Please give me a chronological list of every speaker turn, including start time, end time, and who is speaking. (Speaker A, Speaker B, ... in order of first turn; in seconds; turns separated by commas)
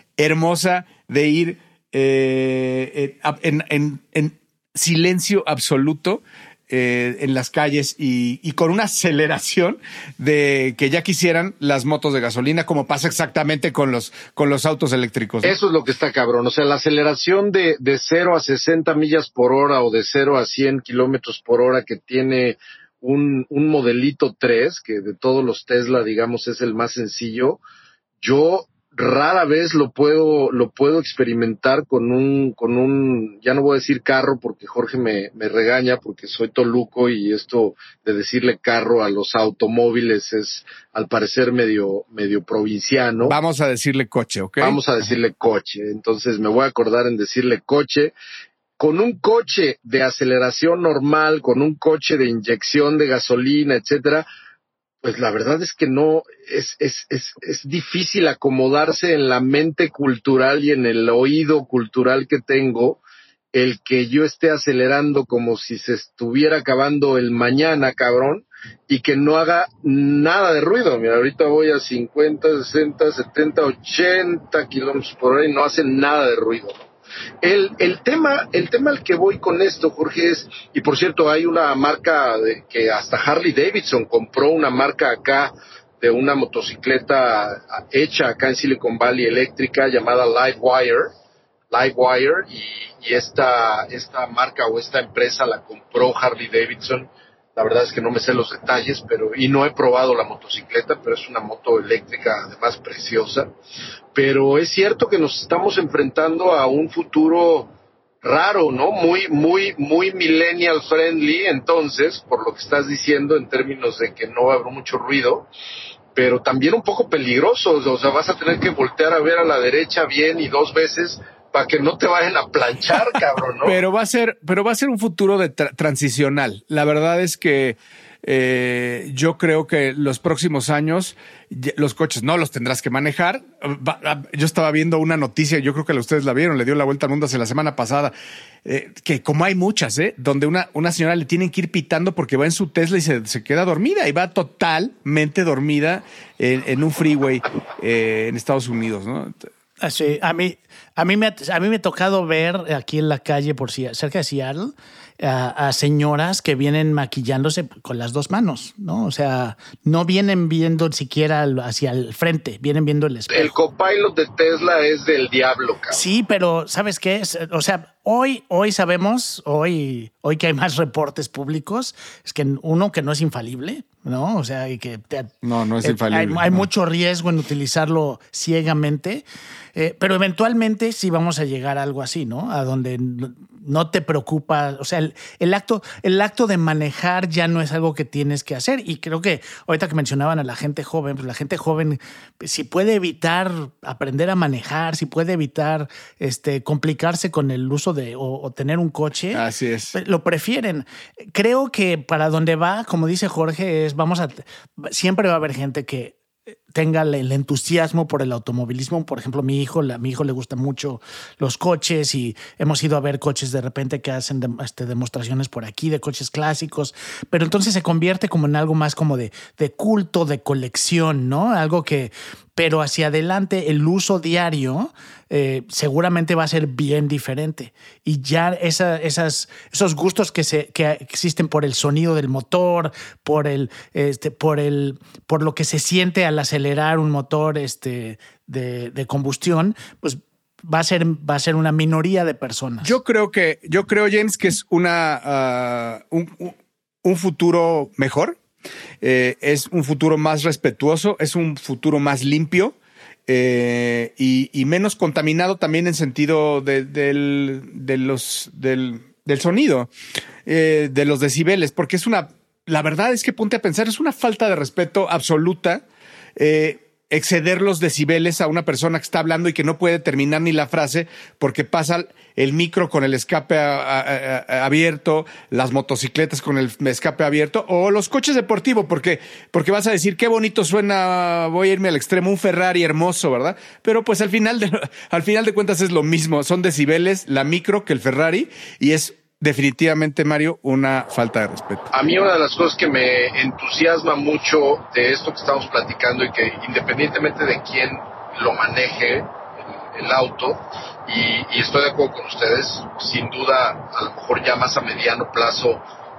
Speaker A: 0.2-15.6, Speaker B: 15.4-27.6, Speaker B: 28.2-43.4, Speaker A: 43.2-44.8, Speaker B: 44.6-48.1, Speaker B: 48.8-54.3, Speaker B: 55.0-63.0, Speaker B: 63.5-76.9, Speaker B: 77.4-91.1, Speaker B: 91.7-103.5, Speaker B: 104.2-107.7, Speaker B: 108.2-115.5, Speaker B: 116.2-123.8, Speaker A: 123.7-138.1, Speaker A: 138.7-149.4, Speaker C: 149.8-163.5, Speaker B: 163.3-166.0, Speaker C: 165.9-199.4, Speaker A: 175.4-176.7, Speaker A: 199.3-200.0, Speaker C: 199.9-206.2, Speaker C: 206.7-242.9, Speaker A: 242.8-248.4, Speaker A: 249.0-252.8, Speaker A: 253.3-259.9, Speaker A: 260.5-265.8, Speaker A: 266.4-291.9, Speaker B: 291.9-299.3, Speaker B: 299.9-305.8